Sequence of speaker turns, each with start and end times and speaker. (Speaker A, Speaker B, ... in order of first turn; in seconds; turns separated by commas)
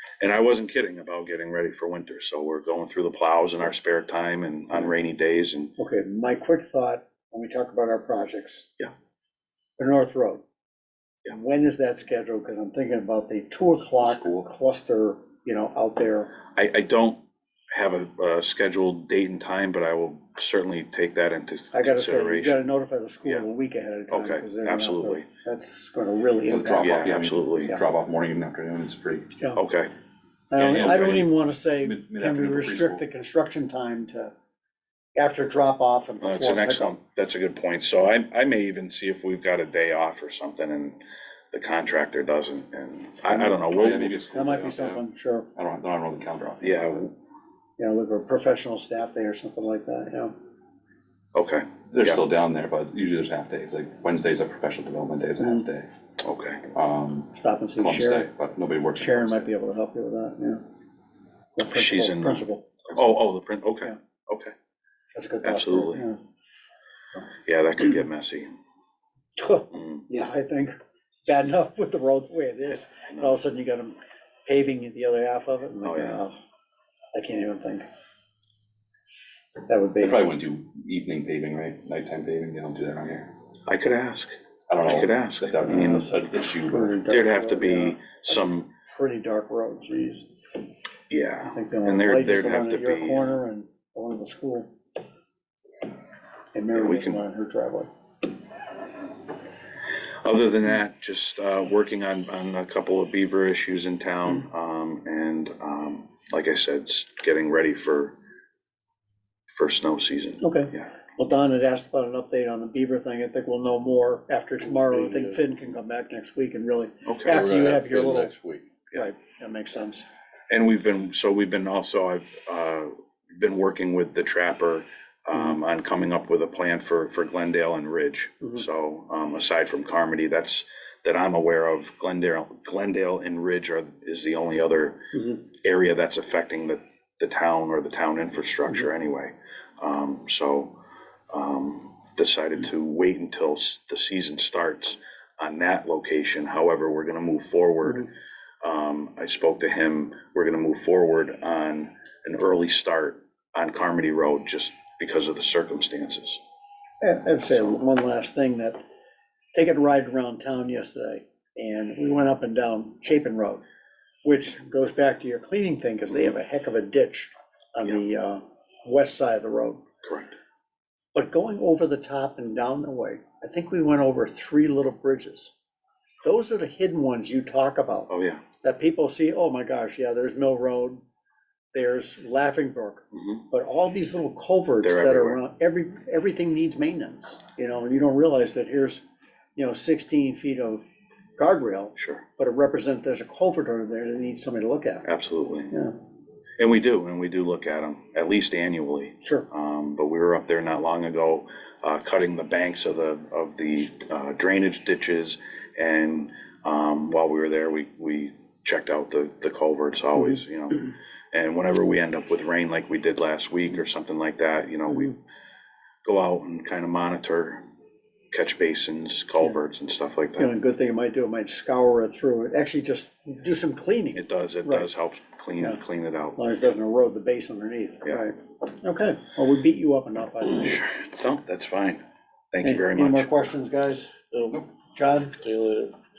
Speaker A: 0.2-5.7, Speaker B: 5.8-8.7, Speaker B: 9.8-10.4, Speaker B: 11.3-16.3, Speaker C: 14.0-14.5, Speaker A: 16.5-17.2, Speaker A: 17.7-22.6, Speaker B: 21.7-27.1, Speaker A: 24.1-25.2, Speaker C: 26.5-29.3, Speaker A: 26.8-27.7, Speaker A: 29.5-29.9, Speaker B: 30.5-34.3, Speaker C: 30.6-33.0, Speaker A: 30.7-30.9, Speaker B: 35.1-37.0, Speaker A: 36.2-41.0, Speaker A: 41.5-44.2, Speaker B: 43.3-43.6, Speaker C: 43.7-45.0, Speaker B: 44.3-45.5, Speaker C: 45.5-47.0, Speaker A: 46.6-47.1, Speaker B: 47.8-50.3, Speaker A: 51.3-52.2, Speaker C: 51.9-55.9, Speaker B: 55.4-55.6, Speaker A: 56.2-56.6, Speaker C: 56.7-59.5, Speaker B: 57.3-58.3, Speaker B: 59.0-60.6, Speaker B: 61.5-62.8, Speaker A: 61.7-64.5, Speaker B: 65.1-66.2, Speaker A: 65.4-66.0, Speaker A: 67.5-68.5, Speaker B: 69.3-70.7, Speaker A: 69.7-70.1, Speaker B: 71.2-76.3, Speaker A: 72.9-73.4, Speaker A: 75.8-76.2, Speaker B: 77.1-77.8, Speaker B: 79.7-80.3, Speaker C: 80.0-83.3, Speaker A: 83.7-84.3, Speaker C: 84.7-87.0, Speaker A: 84.9-86.1, Speaker B: 85.7-86.1, Speaker B: 86.7-90.3, Speaker A: 87.1-88.7, Speaker A: 91.1-93.4, Speaker B: 91.5-94.7, Speaker B: 96.5-97.9, Speaker A: 96.7-97.2, Speaker A: 100.2-108.1, Speaker A: 109.5-110.9, Speaker B: 110.4-118.3, Speaker D: 114.7-115.4, Speaker A: 117.0-117.4, Speaker D: 117.3-118.8, Speaker B: 118.9-120.0, Speaker A: 120.5-140.7, Speaker B: 135.1-135.4, Speaker A: 141.3-148.1, Speaker A: 148.6-156.4, Speaker B: 157.0-158.8, Speaker A: 157.5-157.8, Speaker B: 159.5-163.6, Speaker B: 164.2-169.8, Speaker A: 170.0-170.3, Speaker B: 171.1-175.5, Speaker B: 176.2-178.1, Speaker A: 178.1-178.4, Speaker B: 178.6-181.0, Speaker B: 181.7-189.0, Speaker A: 183.1-183.4, Speaker A: 184.8-185.4, Speaker B: 189.6-190.8, Speaker B: 191.4-195.1, Speaker A: 192.0-192.2, Speaker A: 195.0-195.7, Speaker A: 196.6-215.2, Speaker A: 216.0-217.6, Speaker A: 218.3-220.5, Speaker B: 220.4-224.9, Speaker A: 224.1-226.5, Speaker B: 226.4-230.8, Speaker A: 230.6-233.3, Speaker B: 232.6-234.3, Speaker B: 234.9-235.5, Speaker D: 235.5-235.9